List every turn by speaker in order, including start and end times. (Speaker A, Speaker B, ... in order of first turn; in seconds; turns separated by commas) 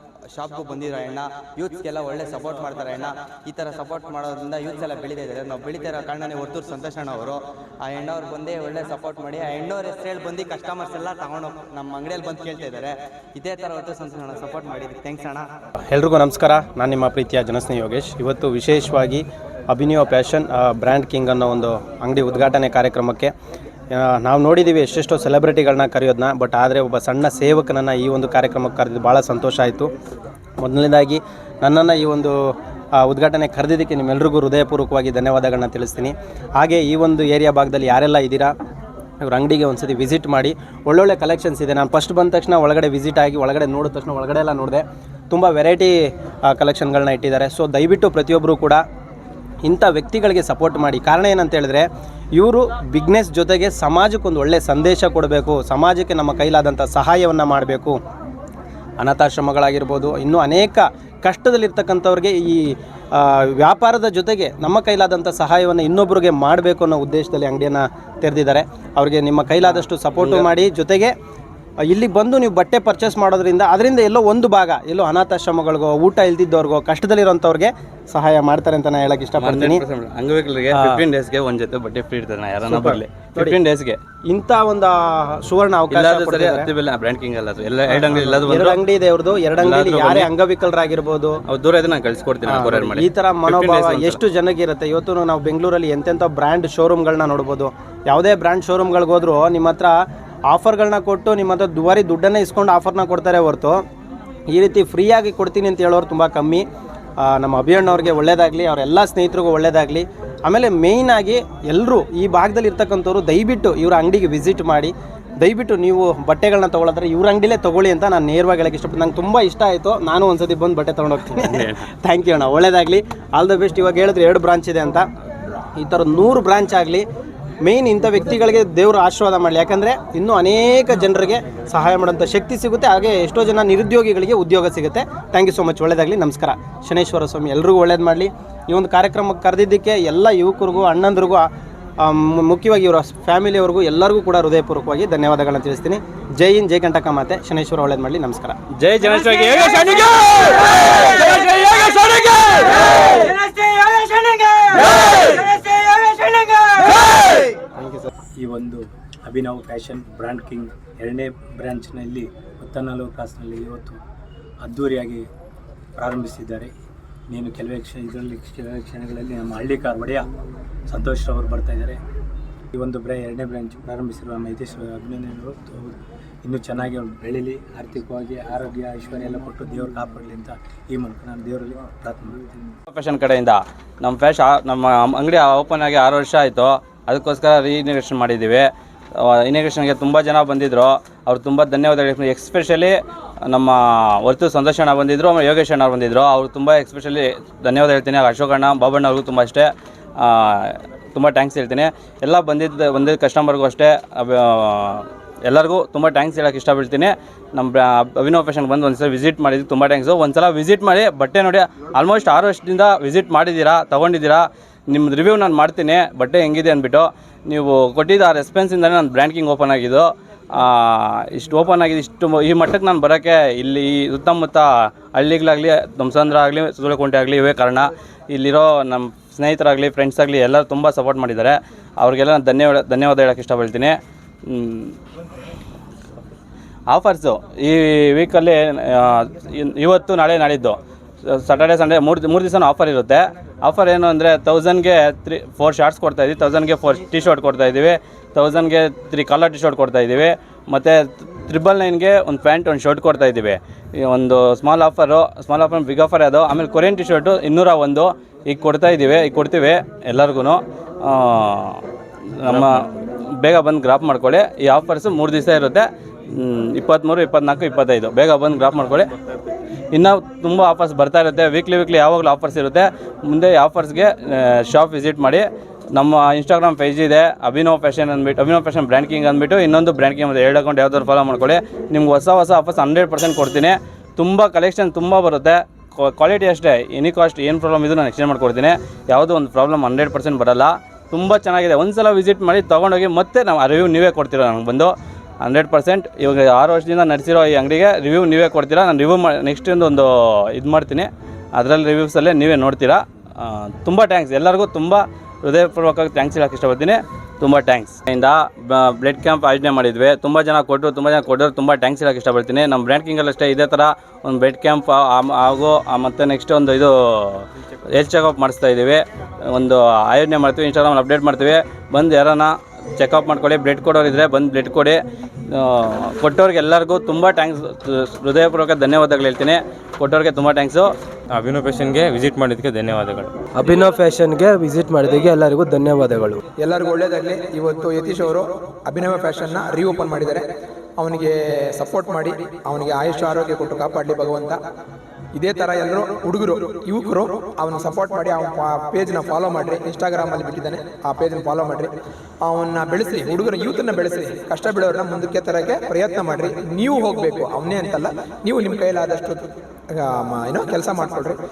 Speaker A: 0.3-15.5, Speaker B: 15.9-23.3, Speaker B: 23.9-29.9, Speaker B: 30.6-32.4, Speaker B: 33.0-38.5, Speaker B: 39.2-45.9, Speaker B: 46.5-48.8, Speaker B: 49.6-58.0, Speaker B: 59.0-62.6, Speaker B: 63.2-71.1, Speaker C: 69.7-70.5, Speaker B: 71.9-79.8, Speaker C: 79.4-84.0, Speaker B: 80.7-81.0, Speaker B: 82.7-83.6, Speaker B: 84.3-86.7, Speaker C: 85.9-88.8, Speaker B: 87.9-91.3, Speaker C: 89.6-90.3, Speaker C: 91.5-94.2, Speaker B: 92.4-99.9, Speaker B: 100.5-103.8, Speaker B: 104.5-106.6, Speaker B: 107.2-125.1, Speaker C: 121.2-121.8, Speaker B: 125.8-127.1, Speaker B: 127.6-141.5, Speaker B: 142.0-148.6, Speaker C: 148.8-157.2, Speaker B: 157.8-158.1, Speaker D: 158.4-164.0, Speaker D: 164.6-165.3, Speaker D: 166.0-166.7, Speaker D: 167.3-170.3, Speaker D: 170.9-172.0, Speaker D: 172.7-182.7, Speaker C: 182.9-234.0, Speaker C: 234.5-235.0, Speaker C: 236.9-261.8, Speaker C: 262.4-269.1, Speaker C: 269.9-330.9, Speaker E: 331.3-333.3, Speaker F: 333.6-336.3, Speaker G: 336.6-340.4, Speaker G: 341.0-344.6, Speaker G: 345.4-351.9, Speaker G: 352.4-361.4